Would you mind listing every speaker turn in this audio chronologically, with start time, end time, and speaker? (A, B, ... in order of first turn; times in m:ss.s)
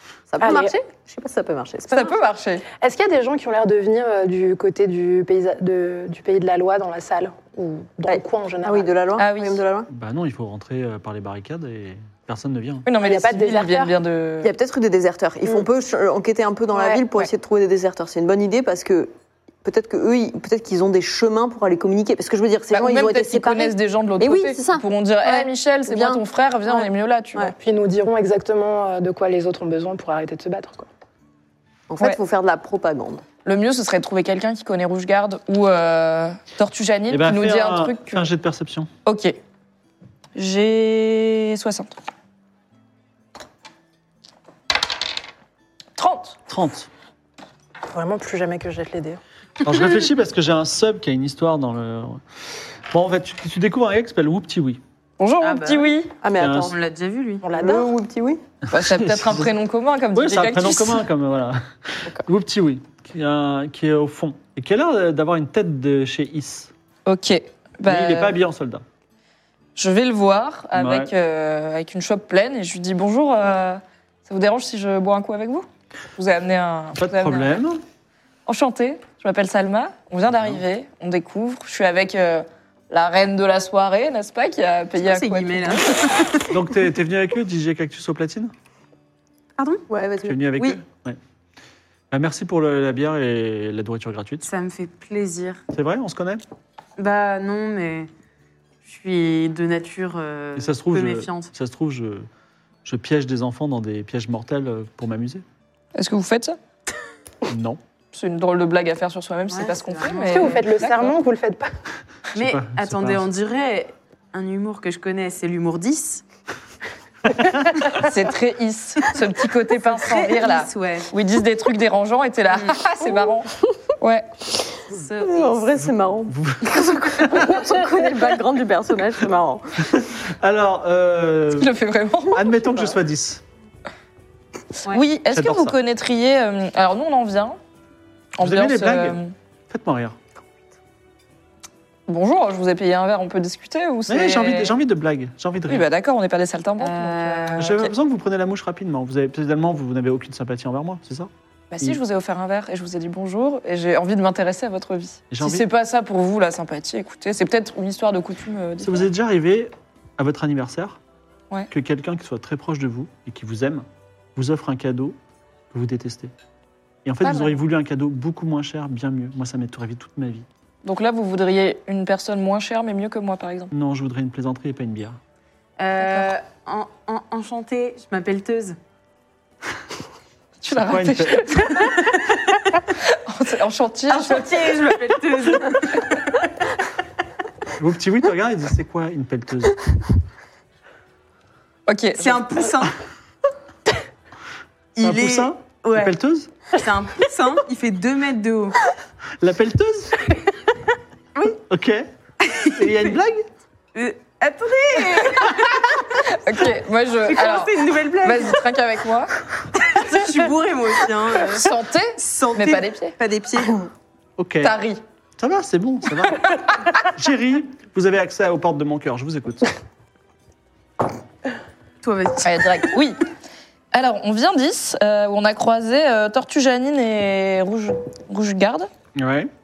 0:00.3-0:02.2 A
0:00.4-0:00.7 B
0:01.9-0:02.6 C
0:02.7-0:08.9 B
0:08.1-0:09.9 A
0:09.2-0:09.6 C
0:09.9-0:12.9 D
0:12.9-0:14.5 C
0:13.0-0:14.0 B
0:14.4-0:19.1 A
0:16.8-0:17.0 B
0:19.6-0:27.5 A
0:22.7-0:27.5 C
0:27.6-0:30.9 B
0:31.9-0:33.2 A
0:33.4-0:38.2 C
0:37.1-0:38.9 D
0:39.0-0:39.4 C
0:40.4-0:42.0 C
0:46.0-0:46.4 C
0:46.5-0:46.9 D
0:47.9-0:49.2 B
0:49.6-0:52.2 D
0:52.9-0:54.8 D
0:55.2-0:56.1 C
0:55.4-0:55.9 E
0:56.2-0:56.7 A
0:56.4-0:56.7 D
0:56.6-0:57.5 E
0:57.4-0:57.9 B
0:57.5-0:58.4 A
0:58.7-1:01.0 C
0:58.7-0:59.5 D
1:00.2-1:06.7 D
1:07.1-1:08.4 C
1:07.9-1:08.8 D
1:09.8-1:17.6 C
1:10.7-1:11.1 D
1:17.0-1:17.8 D
1:18.5-1:26.1 C
1:25.0-1:26.5 E
1:26.5-1:28.5 D
1:29.6-1:29.8 E
1:29.9-1:30.5 A
1:30.2-1:31.2 D
1:32.1-1:34.4 D
1:34.4-1:35.6 E
1:35.7-1:36.4 D
1:37.0-1:38.1 E
1:38.8-1:41.5 E
1:40.6-1:42.3 D
1:42.8-1:45.4 D
1:46.0-1:46.6 C
1:47.5-1:47.8 D
1:48.1-1:51.2 C
1:49.5-1:50.7 E
1:50.1-1:51.7 B
1:52.4-1:53.2 D
1:52.4-1:56.2 E
1:57.3-1:57.9 D
1:57.8-2:04.3 C
1:59.9-2:01.1 E
2:02.5-2:02.8 E
2:04.9-2:05.9 E
2:05.2-2:09.7 A
2:06.3-2:07.6 D
2:09.8-2:11.7 D
2:11.6-2:12.5 C
2:12.3-2:13.4 D
2:14.8-2:17.6 C
2:15.3-2:15.8 D
2:18.4-2:19.3 C
2:18.4-2:19.2 D
2:19.7-2:20.2 D
2:22.1-2:24.8 C
2:24.1-2:25.9 D
2:25.7-2:27.9 C
2:26.8-2:27.9 E
2:27.6-2:32.0 D
2:31.7-2:39.1 C
2:35.3-2:35.7 D
2:38.8-2:41.0 D
2:41.7-2:45.2 D
2:45.7-2:46.3 D
2:47.0-2:50.5 D
2:47.2-2:47.6 C
2:50.8-2:53.7 C
2:53.7-2:55.2 D
2:55.8-2:58.8 E
2:56.0-2:56.3 C
3:00.6-3:02.1 C
3:00.6-3:02.0 D
3:02.9-3:04.8 C
3:04.1-3:06.4 E
3:07.8-3:09.8 D
3:11.9-3:12.6 C
3:12.2-3:13.0 E
3:15.0-3:16.2 E
3:15.0-3:16.5 D
3:16.7-3:18.8 E
3:19.4-3:20.2 D
3:21.7-3:22.1 D
3:22.4-3:23.1 E
3:22.6-3:23.5 D
3:24.0-3:26.1 E
3:26.1-3:29.4 C
3:27.3-3:28.7 E
3:29.7-3:33.9 E
3:31.5-3:33.2 C
3:34.4-3:34.8 D
3:34.6-3:35.0 C
3:35.4-3:39.8 D
3:42.0-3:42.8 E
3:42.4-3:43.2 C
3:43.9-3:48.9 C
3:49.2-3:49.5 D